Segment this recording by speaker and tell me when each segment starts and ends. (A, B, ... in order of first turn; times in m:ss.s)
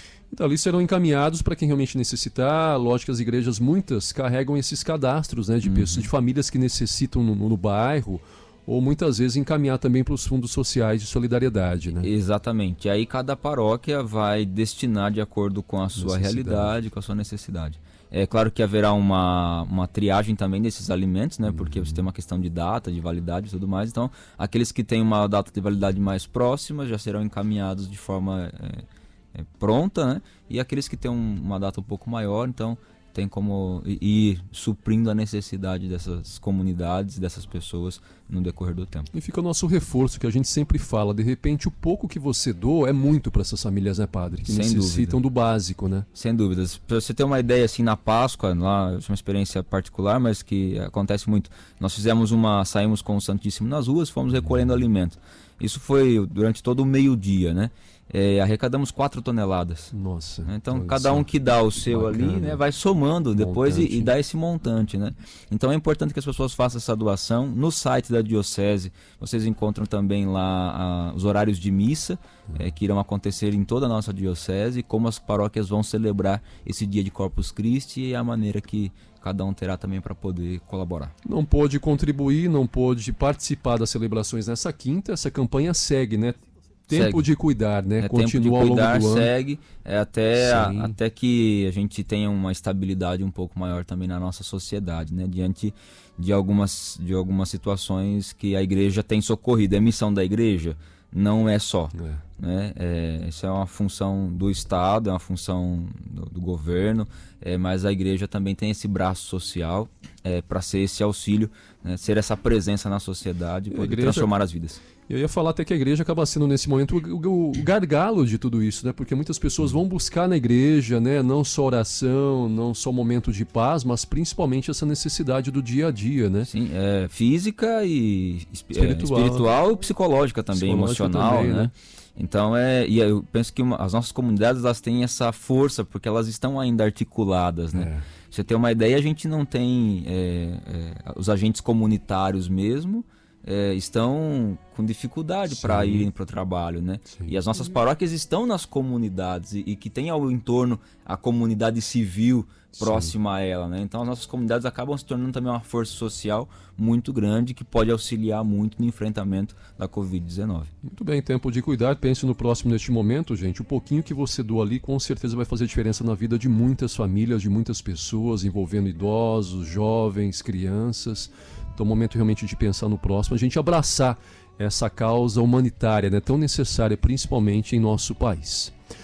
0:00.3-0:12.1 A
0:05.6-0:06.1 B
0:12.0-0:39.1 B
0:16.0-0:16.8 A
0:21.5-0:22.0 A
0:39.1-0:46.0 A
0:44.4-0:45.2 B
0:46.1-0:59.9 B
0:59.9-1:02.6 A
1:00.4-1:21.1 B
1:03.3-1:04.1 A
1:21.2-1:29.3 A
1:26.9-1:27.3 B
1:28.0-1:54.8 B
1:30.4-1:30.9 A
1:41.9-1:42.2 A
1:53.7-1:54.3 A
1:55.1-2:06.5 A
2:06.5-2:40.7 B
2:08.7-2:09.5 A
2:10.5-2:11.7 A
2:17.7-2:18.0 A
2:25.5-2:26.1 A
2:27.1-2:27.4 A
2:32.8-2:33.1 A
2:40.8-2:58.7 A